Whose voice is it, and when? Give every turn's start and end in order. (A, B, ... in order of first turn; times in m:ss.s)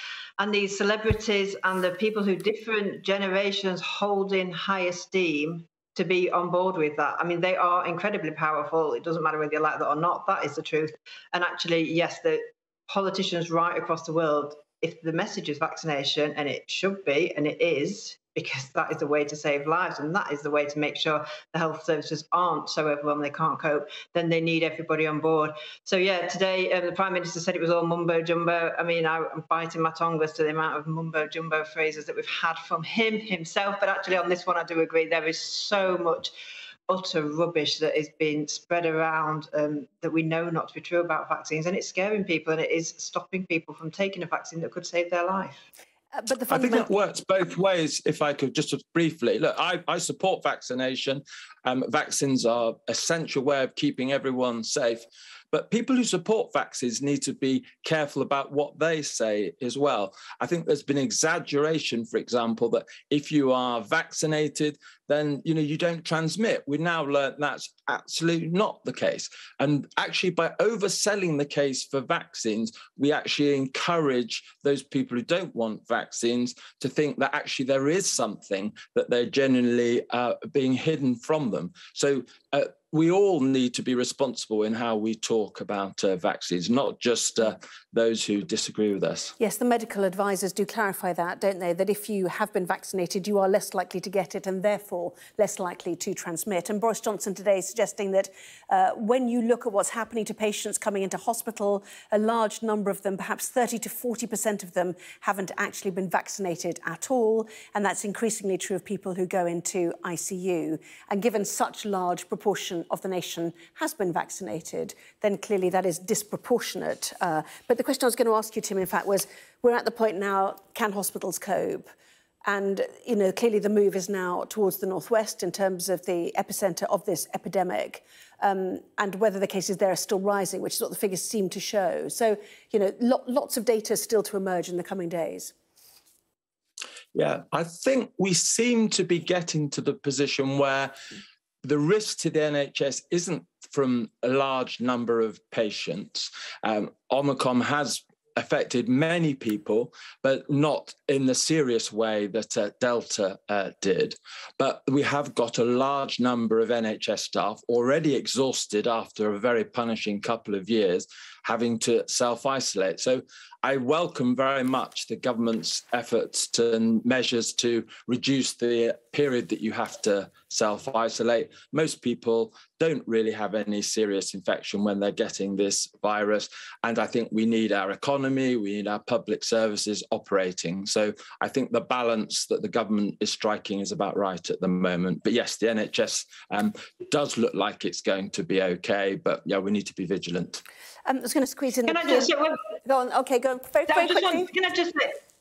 0:00.4-0:36.3 A
0:36.9-0:45.6 A
0:46.1-0:46.9 B
0:46.5-1:29.4 C
1:29.4-2:01.9 B
2:02.5-2:15.5 B
2:17.2-2:20.9 C
2:21.6-3:10.6 C
3:11.1-3:12.3 B
3:11.9-3:12.6 A
3:12.8-3:14.5 B
3:13.9-3:15.2 A